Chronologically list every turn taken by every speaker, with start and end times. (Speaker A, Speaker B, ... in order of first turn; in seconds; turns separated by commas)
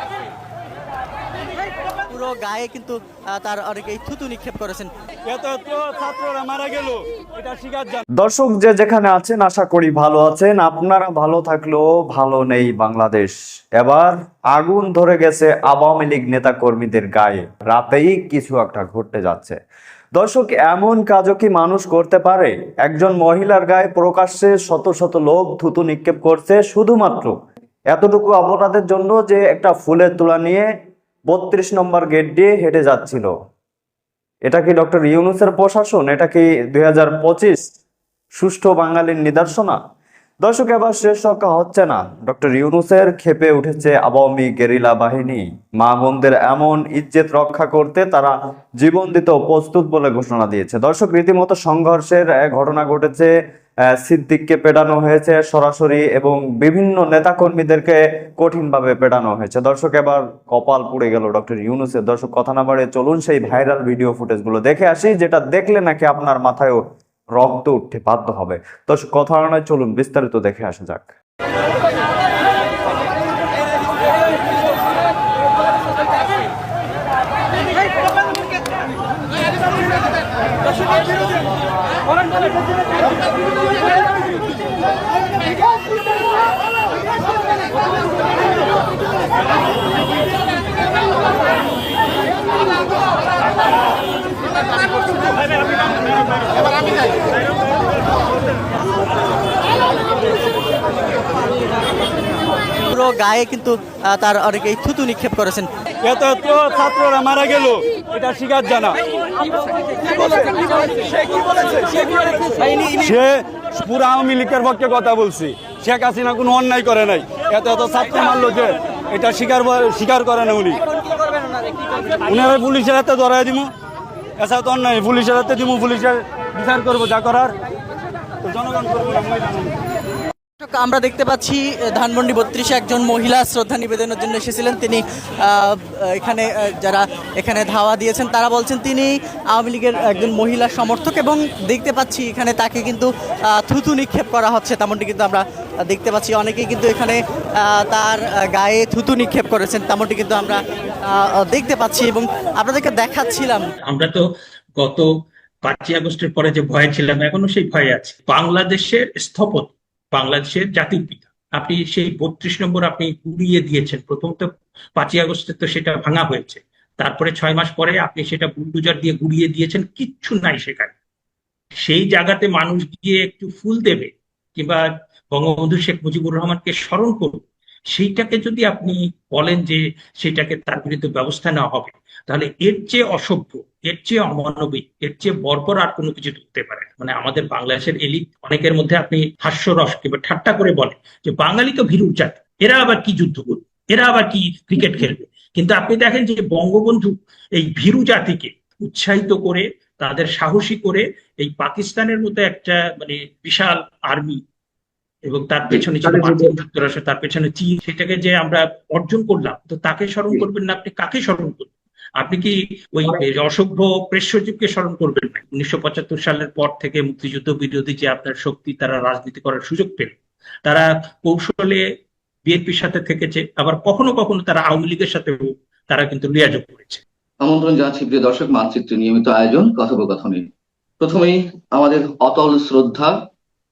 Speaker A: 2.1-4.9, Speaker B: 5.3-8.1, Speaker C: 8.2-19.6, Speaker C: 20.1-27.4, Speaker C: 27.9-30.7, Speaker C: 31.3-33.3, Speaker C: 34.5-37.7, Speaker C: 38.4-39.8, Speaker C: 40.4-53.3, Speaker C: 54.0-66.8, Speaker C: 67.3-71.1, Speaker A: 102.9-105.7, Speaker B: 106.0-109.0, Speaker B: 110.2-110.7, Speaker B: 111.7-120.8, Speaker B: 122.3-123.7, Speaker B: 124.4-127.5, Speaker B: 128.4-129.7, Speaker A: 130.6-153.7, Speaker D: 153.9-154.2, Speaker D: 154.8-155.1, Speaker D: 155.6-170.9, Speaker D: 171.8-204.4, Speaker D: 205.3-221.8, Speaker E: 205.7-206.5, Speaker D: 222.5-227.0, Speaker E: 227.4-230.5, Speaker E: 231.0-233.1